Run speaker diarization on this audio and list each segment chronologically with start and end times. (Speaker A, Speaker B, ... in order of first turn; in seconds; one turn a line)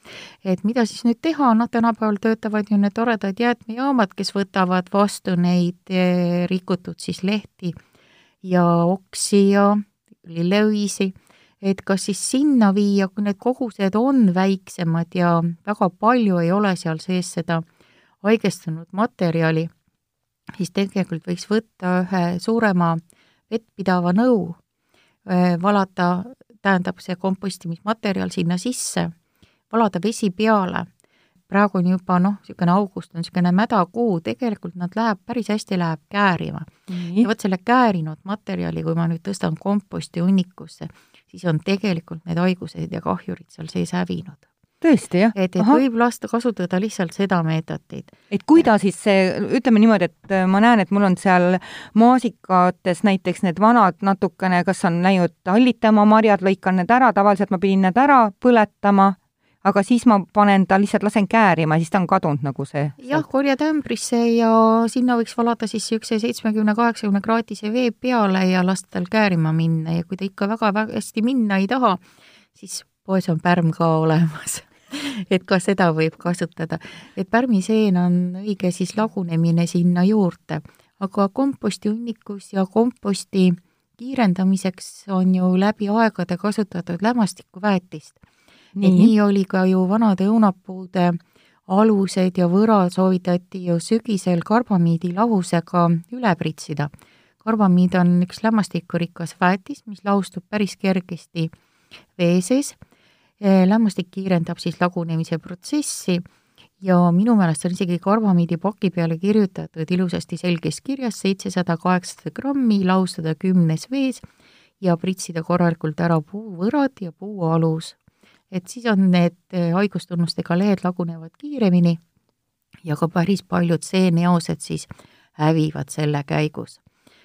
Speaker A: 0.4-7.8
Speaker A: 8.4-17.6
Speaker A: 18.2-19.7
Speaker A: 20.6-24.6
Speaker A: 25.2-29.1
Speaker A: 29.7-30.9
Speaker A: 31.5-44.5
Speaker B: 36.9-37.3
Speaker B: 44.8-45.8
Speaker A: 45.3-48.7
Speaker B: 48.3-63.2
Speaker A: 63.0-72.0
Speaker A: 72.5-88.2
Speaker B: 88.8-89.1
Speaker A: 88.8-96.9
Speaker A: 97.4-101.5
Speaker A: 102.2-102.8
Speaker A: 103.4-106.2
Speaker A: 106.8-114.2
Speaker A: 114.8-118.0
Speaker A: 118.5-122.0
Speaker A: 122.8-126.8